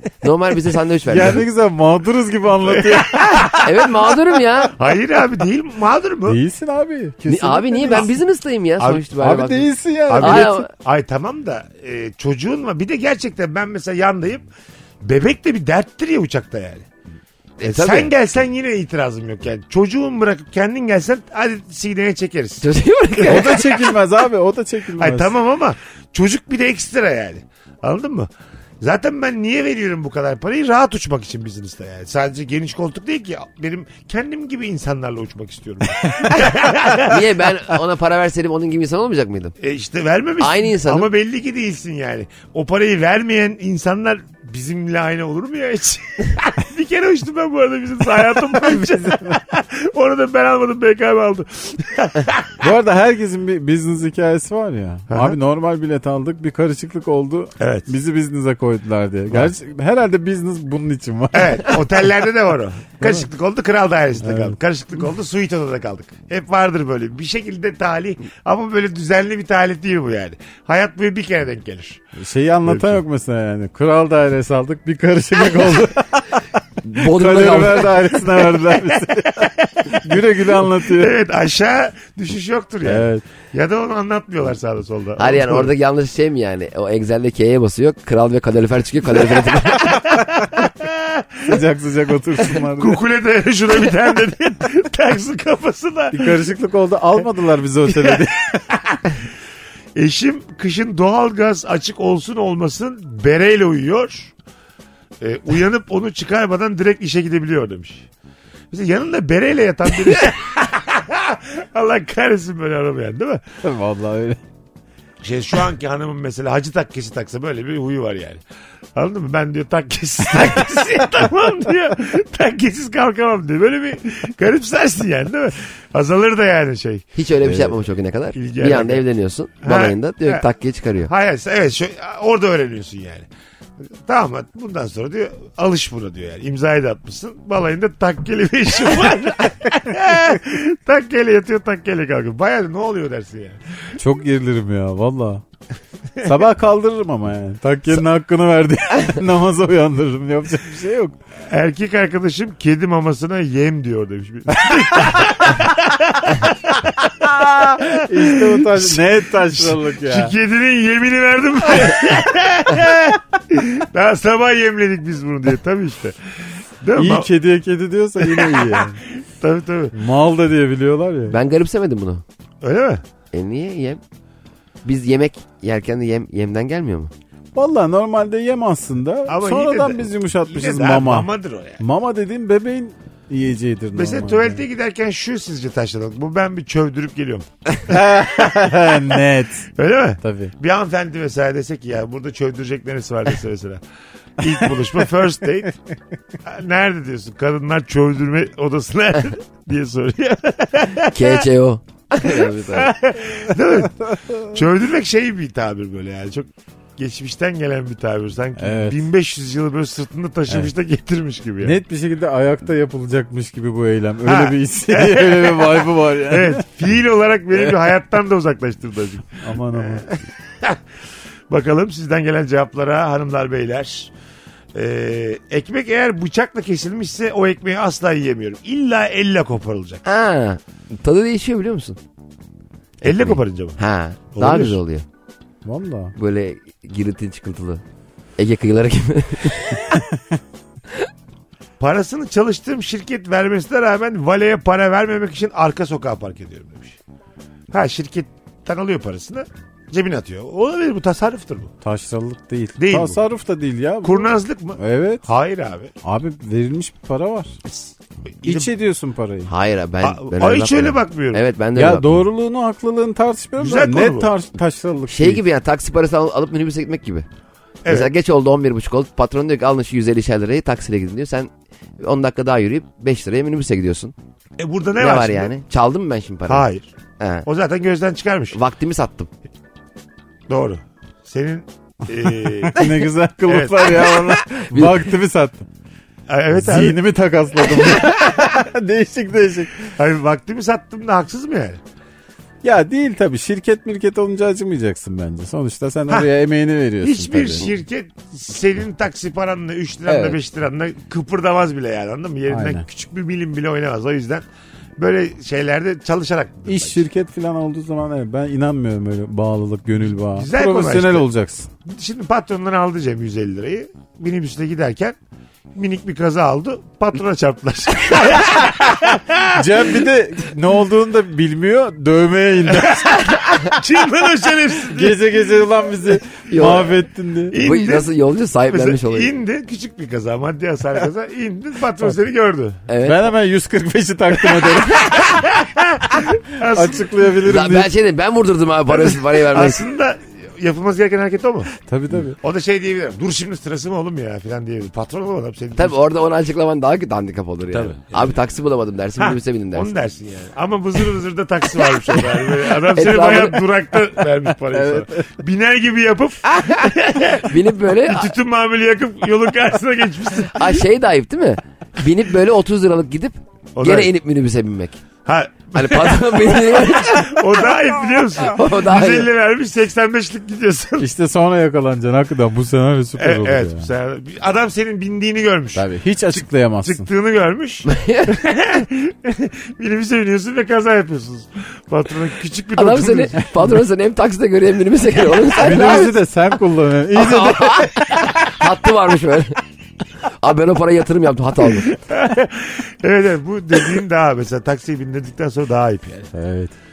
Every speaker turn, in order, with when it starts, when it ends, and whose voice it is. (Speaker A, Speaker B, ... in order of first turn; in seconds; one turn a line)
Speaker A: 0.2-1.4
Speaker B: 1.1-3.6
Speaker C: 2.6-3.7
Speaker A: 3.4-4.7
Speaker C: 4.7-6.4
Speaker B: 6.2-8.1
Speaker A: 7.3-10.7
Speaker C: 8.8-9.0
Speaker B: 9.2-10.7
Speaker C: 10.1-14.4
Speaker C: 15.0-16.9
Speaker A: 17.6-18.1
Speaker C: 17.6-23.7
Speaker A: 22.6-23.7
Speaker B: 23.2-25.3
Speaker C: 25.0-28.3
Speaker C: 28.8-37.3
Speaker A: 37.0-39.5
Speaker C: 39.6-52.5
Speaker A: 40.4-41.1
Speaker B: 52.6-61.8
Speaker C: 55.1-55.4
Speaker C: 57.6-57.9
Speaker C: 61.3-72.0
Speaker B: 64.2-64.6
Speaker B: 72.2-81.1
Speaker C: 72.6-73.0
Speaker A: 76.9-78.0
Speaker C: 78.8-85.7
Speaker B: 82.8-83.2
Speaker A: 85.2-90.1
Speaker C: 89.8-91.5
Speaker B: 91.5-93.0
Speaker C: 92.6-96.4
Speaker B: 96.1-98.6
Speaker C: 97.8-99.1
Speaker C: 100.0-104.3
Speaker C: 105.2-108.1
Speaker C: 108.7-113.4
Speaker B: 113.6-114.4
Speaker C: 115.2-118.4
Speaker C: 118.9-127.0
Speaker A: 127.1-131.1
Speaker C: 128.3-129.0
Speaker C: 129.6-130.4
Speaker C: 131.0-133.3
Speaker C: 134.0-143.6
Speaker B: 144.0-145.4
Speaker B: 146.2-151.2
Speaker C: 151.5-166.2
Speaker B: 157.2-160.3
Speaker C: 166.8-167.3
Speaker B: 166.9-169.0
Speaker C: 168.2-169.9
Speaker B: 169.9-171.4
Speaker A: 171.3-172.2
Speaker C: 172.6-173.0
Speaker A: 173.3-174.0
Speaker A: 174.8-177.1
Speaker B: 177.5-181.3
Speaker C: 179.3-181.8
Speaker B: 181.8-184.6
Speaker C: 183.9-187.5
Speaker B: 187.8-189.7
Speaker C: 188.2-188.8
Speaker C: 189.8-193.8
Speaker B: 190.2-190.5
Speaker C: 194.4-195.7
Speaker C: 196.4-201.5
Speaker A: 201.1-202.9
Speaker C: 202.2-211.8
Speaker B: 204.1-204.4
Speaker B: 208.6-209.0
Speaker B: 211.6-216.6
Speaker C: 214.2-220.8
Speaker B: 219.4-220.1
Speaker C: 221.5-224.1
Speaker C: 224.7-230.0
Speaker A: 230.0-232.0
Speaker C: 233.0-233.8
Speaker A: 233.0-235.0
Speaker C: 234.3-234.8
Speaker B: 235.6-236.1
Speaker A: 236.2-237.8
Speaker A: 238.4-239.9
Speaker C: 241.8-247.0
Speaker C: 247.7-251.7
Speaker B: 251.8-255.2
Speaker C: 252.8-253.2
Speaker C: 254.0-255.9
Speaker B: 256.0-257.6
Speaker C: 257.7-258.7
Speaker B: 258.4-259.5
Speaker A: 259.5-262.2
Speaker C: 260.0-261.4
Speaker B: 261.7-265.4
Speaker C: 263.6-264.3
Speaker A: 265.1-267.2
Speaker C: 267.8-268.1
Speaker A: 267.9-274.1
Speaker C: 274.6-275.5
Speaker A: 275.0-276.6
Speaker C: 276.5-276.9
Speaker A: 277.2-277.4
Speaker C: 277.4-278.6
Speaker A: 278.5-279.3
Speaker C: 280.5-282.9
Speaker B: 282.5-285.6
Speaker C: 283.5-284.1
Speaker A: 284.0-285.1
Speaker C: 286.3-287.0
Speaker B: 286.5-289.9
Speaker C: 289.9-291.8
Speaker B: 292.6-297.7
Speaker C: 297.0-304.4
Speaker B: 300.1-300.3
Speaker B: 302.5-302.9
Speaker C: 305.0-307.0
Speaker B: 306.7-311.7
Speaker C: 310.3-311.3
Speaker C: 311.8-315.2
Speaker C: 315.7-319.9
Speaker B: 319.5-323.1
Speaker C: 322.7-325.2
Speaker B: 324.9-327.6
Speaker A: 326.5-327.0
Speaker C: 327.5-328.1
Speaker A: 327.6-329.3
Speaker C: 328.7-332.8
Speaker A: 332.9-333.2
Speaker B: 333.0-335.3
Speaker C: 334.6-337.3
Speaker B: 336.7-337.9
Speaker A: 337.4-339.8
Speaker C: 338.9-341.7
Speaker B: 341.9-342.4
Speaker C: 342.3-345.9
Speaker A: 345.8-349.9
Speaker C: 347.7-348.3
Speaker C: 349.2-360.8
Speaker A: 352.8-353.6
Speaker B: 354.7-355.3
Speaker A: 356.6-358.3
Speaker A: 360.5-365.0
Speaker C: 363.8-364.1
Speaker C: 365.2-371.1
Speaker A: 365.7-367.5
Speaker A: 368.4-369.3
Speaker B: 371.0-373.9
Speaker C: 373.2-383.4
Speaker B: 375.7-377.1
Speaker A: 377.9-378.3
Speaker A: 382.8-386.1
Speaker B: 385.6-387.9
Speaker A: 387.1-389.6
Speaker A: 390.4-392.0
Speaker C: 391.8-396.3
Speaker B: 396.3-396.7